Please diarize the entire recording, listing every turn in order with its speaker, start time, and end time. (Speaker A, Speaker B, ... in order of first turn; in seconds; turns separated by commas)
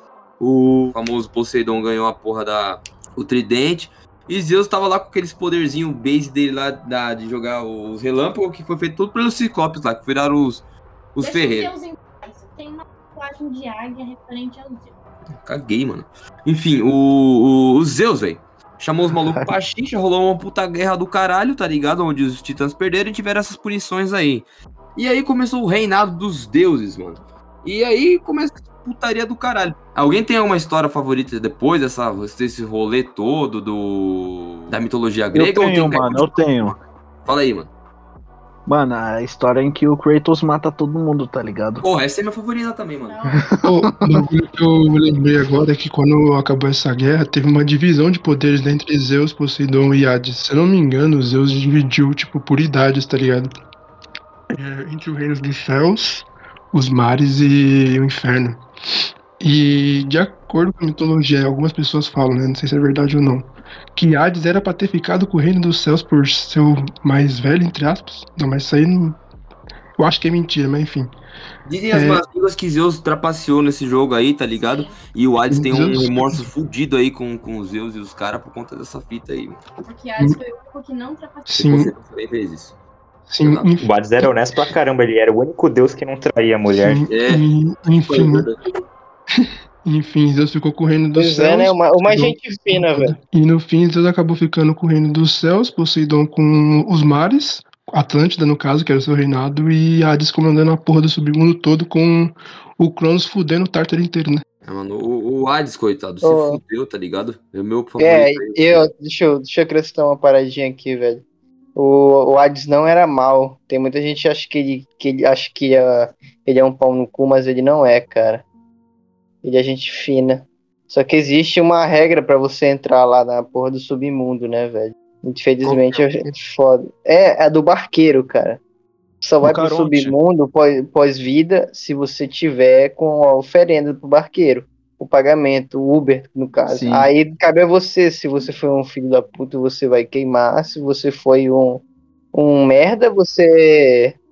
Speaker A: 0.4-10.6, Speaker A: 11.1-11.7, Speaker B: 11.2-14.9, Speaker A: 15.4-36.3, Speaker C: 35.3-36.8, Speaker A: 37.2-37.7, Speaker C: 38.7-41.8, Speaker A: 41.8-43.2, Speaker B: 43.0-43.5, Speaker C: 43.3-44.2, Speaker D: 43.6-53.5, Speaker D: 54.5-58.6, Speaker D: 59.4-69.2, Speaker D: 70.0-71.1, Speaker A: 71.6-79.6, Speaker D: 71.9-72.2, Speaker B: 74.6-75.0, Speaker D: 75.5-76.5, Speaker B: 79.8-81.5, Speaker D: 81.5-81.9, Speaker A: 81.5-82.7, Speaker D: 83.3-83.9, Speaker A: 83.4-83.7, Speaker E: 83.8-87.1, Speaker D: 86.7-88.5, Speaker A: 87.1-87.5, Speaker A: 88.1-88.6, Speaker D: 89.8-104.4, Speaker F: 91.2-93.1, Speaker A: 104.6-108.9, Speaker F: 106.2-106.6, Speaker F: 108.0-111.2, Speaker F: 111.8-118.4, Speaker F: 119.4-128.6, Speaker A: 125.6-126.0, Speaker F: 129.2-141.8, Speaker C: 129.4-130.1, Speaker C: 136.7-137.1, Speaker F: 142.3-144.2